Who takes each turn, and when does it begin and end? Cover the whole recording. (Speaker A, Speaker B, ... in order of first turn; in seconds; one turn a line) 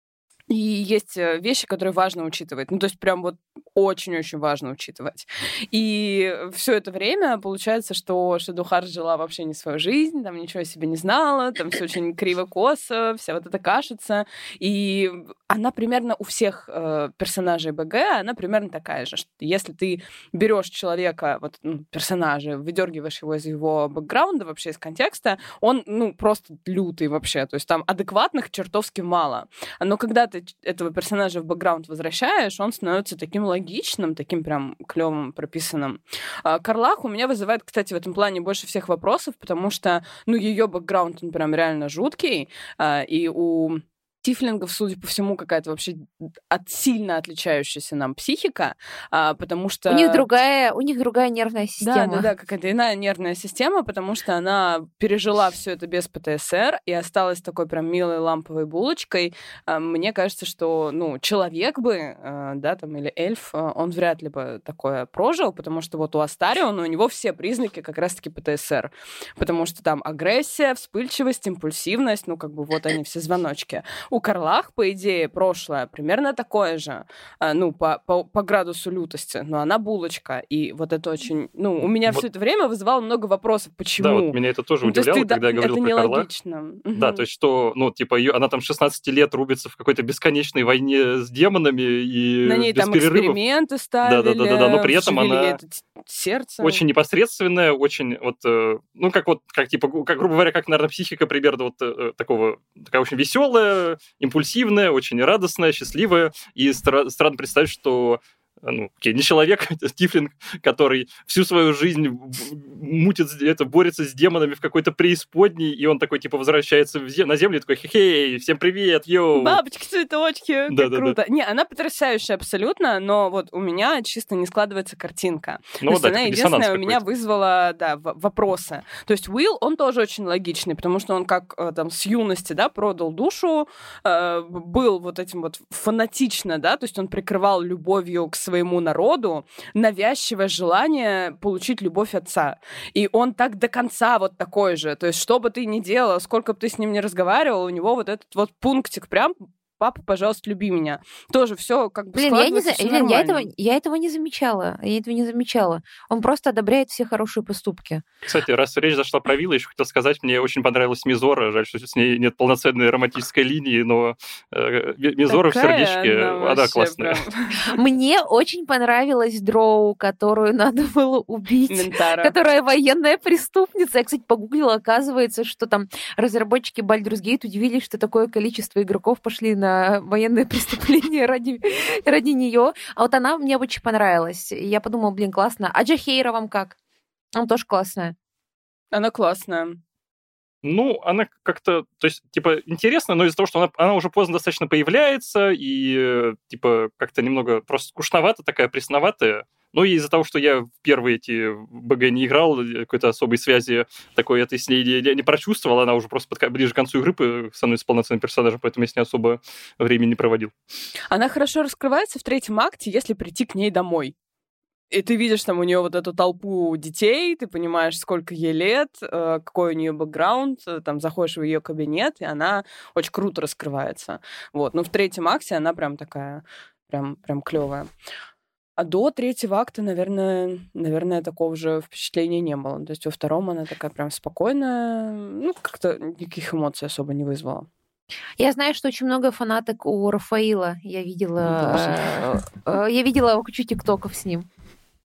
Speaker A: 0.5-50.2
Speaker B: 49.9-52.3
Speaker A: 51.8-87.2
Speaker C: 84.0-86.3
Speaker C: 86.9-93.4
Speaker A: 92.4-96.8
Speaker C: 94.0-95.6
Speaker C: 96.6-119.6
Speaker A: 119.3-153.5
Speaker C: 120.7-121.2
Speaker C: 125.8-127.0
Speaker B: 152.1-158.0
Speaker C: 158.2-167.2
Speaker A: 165.3-167.8
Speaker B: 167.6-186.8
Speaker A: 171.7-172.3
Speaker B: 187.3-188.1
Speaker A: 188.9-189.8
Speaker C: 190.6-210.5
Speaker A: 211.1-214.1
Speaker A: 214.9-227.9
Speaker A: 228.8-237.7
Speaker B: 238.4-244.4